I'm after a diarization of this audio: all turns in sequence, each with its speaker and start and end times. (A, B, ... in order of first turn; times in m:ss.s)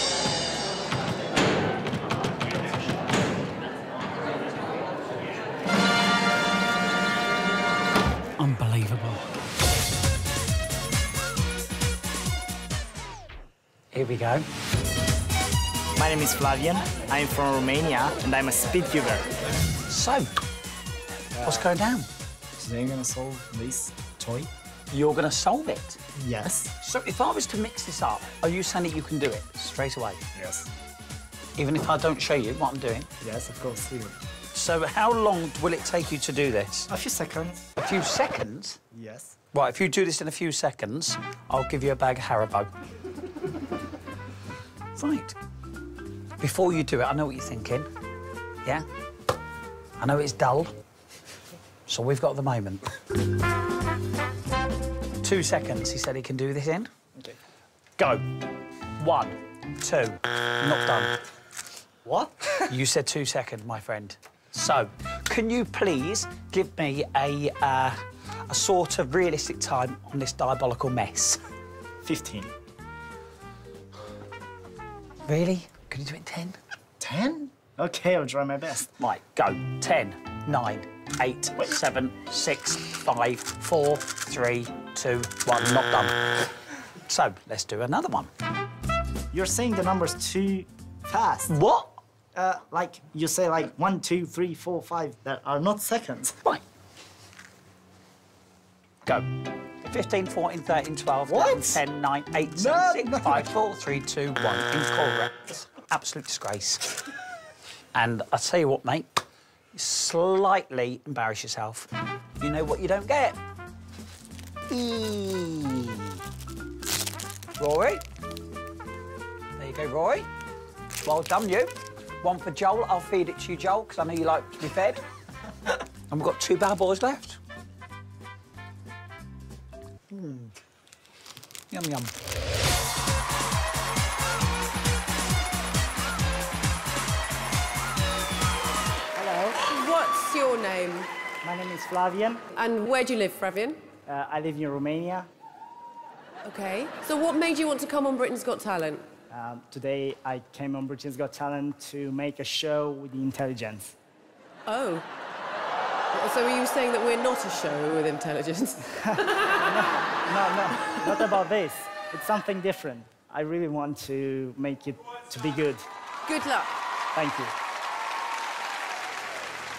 0:08.4-0:09.2 A
0:13.9-0:14.5 A
0:16.0-0:19.2 B
0:19.9-0:20.3 A
0:21.4-0:21.6 B
0:21.4-0:22.1 A
0:22.6-0:24.5 B
0:24.9-0:26.0 A
0:26.2-0:26.7 B
0:26.8-0:30.2 A
0:30.4-0:30.7 B
0:31.6-0:33.1 A
0:33.2-0:34.2 B
0:34.5-0:36.9 A
0:36.9-0:37.6 B
0:37.8-0:38.8 A
0:38.9-0:39.4 B
0:39.5-0:42.7 A
0:45.0-0:45.4 A
0:46.4-0:47.9 A
0:50.0-0:50.7 A
0:51.9-0:52.9 A
0:55.2-0:56.9 A
0:58.0-0:58.2 A
0:59.0-1:01.2 A
1:02.0-1:08.0 A
1:08.5-1:11.4 A
1:12.0-1:12.5 B
1:15.2-1:16.6 A
1:17.0-1:18.9 B
1:19.0-1:28.3 A
1:29.3-1:31.5 B
1:31.5-1:32.0 A
1:32.4-1:36.4 B
1:39.8-1:46.9 A
1:41.3-1:41.8 B
1:42.6-1:43.5 B
1:47.9-1:49.2 A
1:49.8-1:53.4 A
1:54.7-1:56.1 A
1:57.6-1:58.0 A
1:59.6-2:00.3 A
2:01.0-2:05.0 A
2:05.7-2:07.4 A
2:10.1-2:10.5 A
2:11.7-2:12.1 A
2:19.2-2:21.1 C
2:21.4-2:22.4 B
2:22.5-2:23.8 C
2:24.1-2:25.3 B
2:26.4-2:29.1 C
2:29.3-2:34.0 B
2:34.7-2:35.1 C
2:36.1-2:39.6 C
2:39.6-2:45.9 B
2:46.3-2:46.8 C
2:47.1-2:47.5 B